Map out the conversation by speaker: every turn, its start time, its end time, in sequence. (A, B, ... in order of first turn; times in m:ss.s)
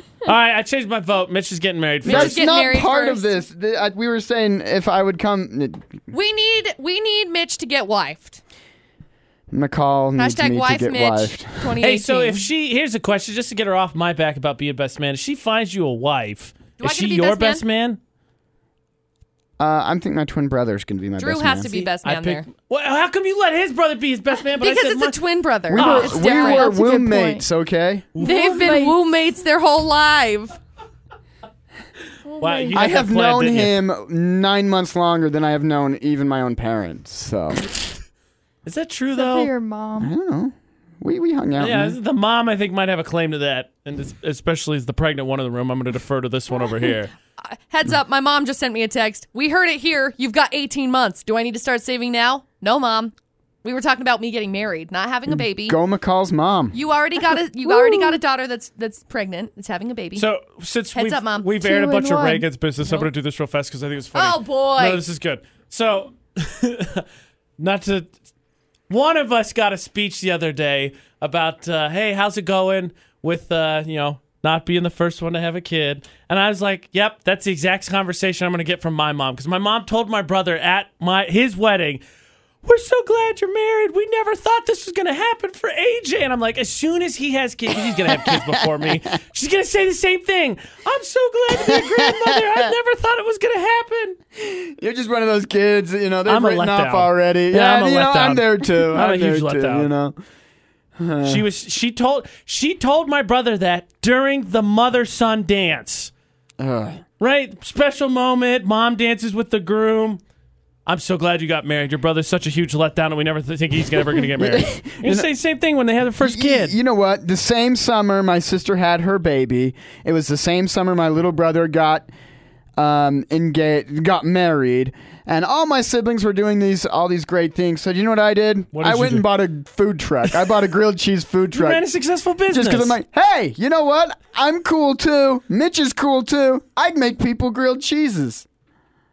0:00.2-0:02.4 A
0:02.0-0:03.4 B
0:02.0-0:06.0 C
0:06.1-0:08.4 B
0:09.5-0:11.7 C
0:10.2-0:12.4 B
0:11.8-0:18.0 A
0:16.8-0:17.6 B
0:19.6-0:21.7 C
0:21.2-0:22.5 B
0:21.7-0:25.2 A
0:24.6-0:26.7 B
0:25.7-0:26.1 A
0:25.7-0:28.1 C
0:26.0-0:27.4 D
0:28.2-0:29.0 D
0:28.2-0:30.6 B
0:32.2-0:32.9 D
0:32.4-0:33.8 A
0:32.7-0:37.7 C
0:38.6-0:39.5 A
0:39.1-0:40.1 D
0:40.0-0:42.0 C
0:41.6-0:47.1 A
0:46.8-0:55.8 B
0:55.3-0:56.8 C
0:56.7-1:00.2 B
0:57.6-0:58.2 D
1:00.2-1:07.0 A
1:00.9-1:01.5 B
1:01.6-1:02.5 D
1:04.1-1:05.0 B
1:07.6-1:08.1 A
1:08.9-1:22.0 A
1:22.6-1:34.2 A
1:28.0-1:29.0 C
1:31.5-1:32.7 C
1:34.3-1:40.2 C
1:36.2-1:39.9 A
1:41.0-1:41.4 C
1:41.2-1:46.1 A
1:46.6-1:47.0 C
1:47.2-1:50.2 A
1:50.8-1:56.8 A
1:54.2-1:55.3 C
1:56.2-2:02.1 C
2:02.8-2:11.8 C
2:08.7-2:09.3 A
2:11.5-2:13.0 A
2:12.5-2:18.4 C